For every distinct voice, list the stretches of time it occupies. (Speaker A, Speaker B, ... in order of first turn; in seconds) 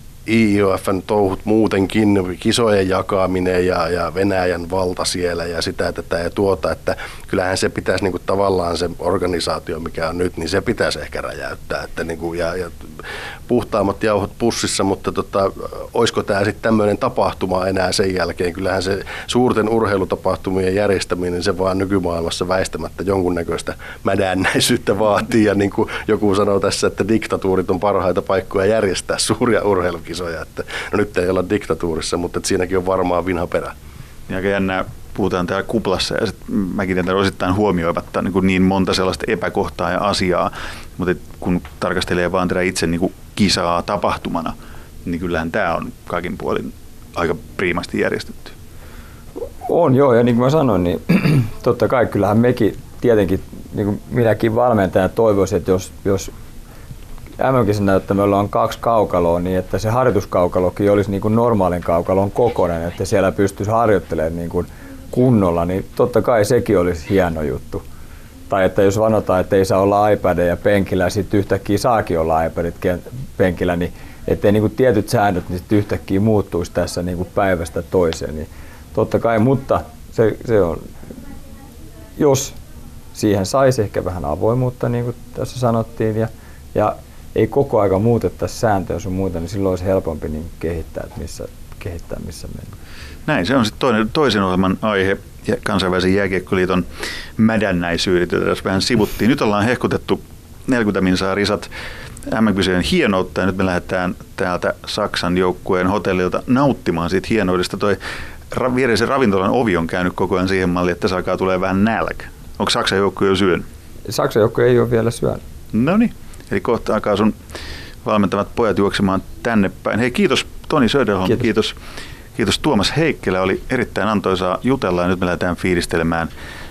Speaker A: 0.2-33.7
Speaker B: 34.3-48.5, 93.2-101.7, 102.2-108.0, 108.5-113.7, 115.7-117.3, 118.0-121.8, 122.3-126.3
Speaker C: 49.6-56.3, 57.4-67.8, 68.5-80.9, 82.2-82.6, 83.1-92.7, 114.1-115.4